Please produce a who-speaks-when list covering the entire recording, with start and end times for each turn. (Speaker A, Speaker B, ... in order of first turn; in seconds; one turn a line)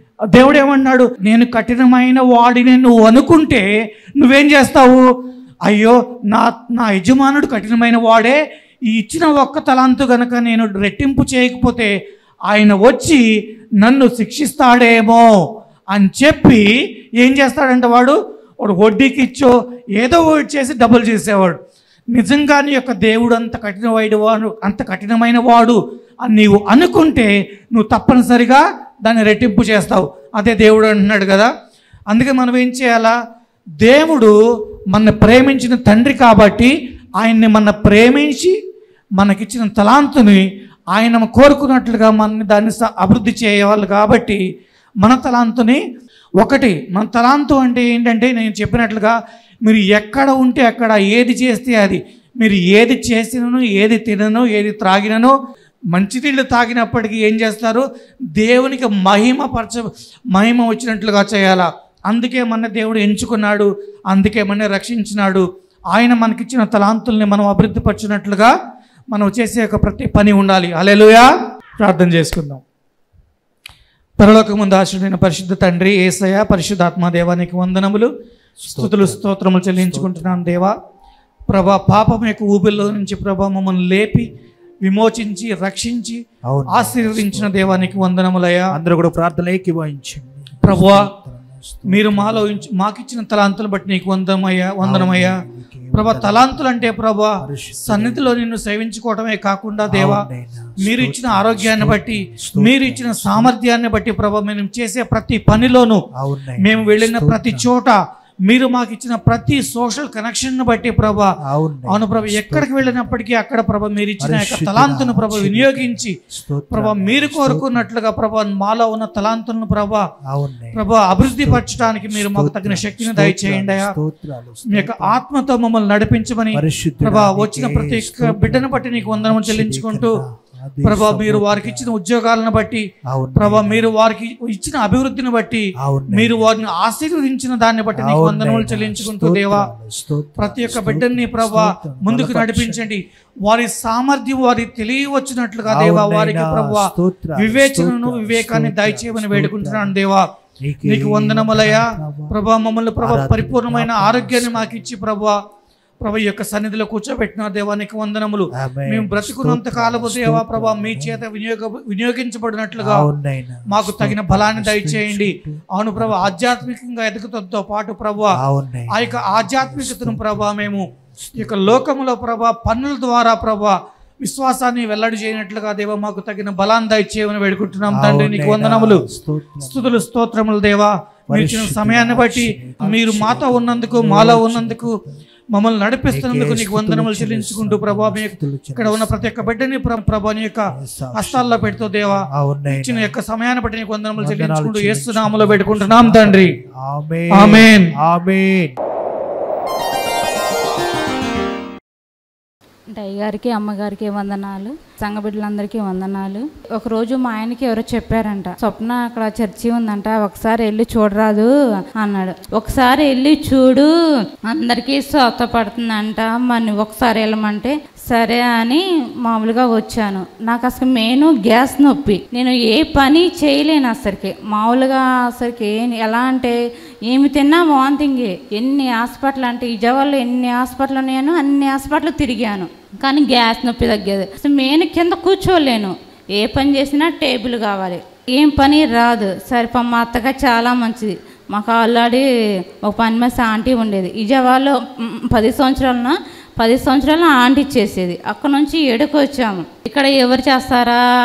Speaker A: 0.3-3.6
Speaker A: 4.2-5.0
Speaker A: 5.7-11.9
Speaker A: 12.5-13.2
Speaker A: 13.8-15.3
Speaker A: 15.9-16.7
Speaker A: 17.2-21.6
Speaker A: 22.1-31.5
Speaker A: 32.1-33.1
Speaker A: 33.8-34.3
Speaker A: 34.9-38.5
Speaker A: 39.2-40.4
Speaker A: 40.9-44.4
Speaker A: 45.0-45.8
Speaker A: 46.4-55.4
Speaker A: 55.9-57.9
Speaker A: 58.4-68.5
Speaker A: 69.1-71.3
Speaker A: 71.8-72.6
Speaker A: 74.2-78.1
Speaker B: 78.6-80.5
Speaker A: 78.7-80.8
Speaker A: 81.5-84.3
Speaker A: 84.8-88.7
Speaker B: 86.5-88.1
Speaker B: 88.7-92.7
Speaker A: 90.6-91.1
Speaker A: 91.9-95.4
Speaker B: 94.8-98.4
Speaker A: 95.9-100.2
Speaker B: 99.9-103.5
Speaker A: 100.8-106.0
Speaker B: 106.2-107.7
Speaker A: 106.6-111.3
Speaker B: 111.5-113.2
Speaker A: 111.9-116.2
Speaker B: 114.2-117.9
Speaker A: 116.7-120.1
Speaker B: 120.2-125.2
Speaker A: 120.7-123.9
Speaker A: 124.7-130.2
Speaker B: 126.5-131.9
Speaker A: 130.8-139.7
Speaker B: 133.1-133.9
Speaker B: 135.8-136.5
Speaker B: 138.0-142.9
Speaker A: 140.4-150.3
Speaker B: 145.7-150.0
Speaker B: 150.6-152.3
Speaker A: 150.8-155.4
Speaker B: 153.0-154.9
Speaker A: 156.0-163.1
Speaker B: 158.5-161.2
Speaker B: 162.8-166.7
Speaker A: 163.7-168.4
Speaker B: 168.3-171.9
Speaker A: 168.9-179.0
Speaker B: 177.9-180.1
Speaker A: 179.7-184.9
Speaker B: 181.3-185.2
Speaker A: 185.5-196.5
Speaker B: 186.1-189.6
Speaker B: 190.7-193.1
Speaker B: 194.2-198.8
Speaker A: 197.4-197.9
Speaker C: 202.9-213.9
Speaker C: 214.5-242.3
Speaker C: 242.8-251.0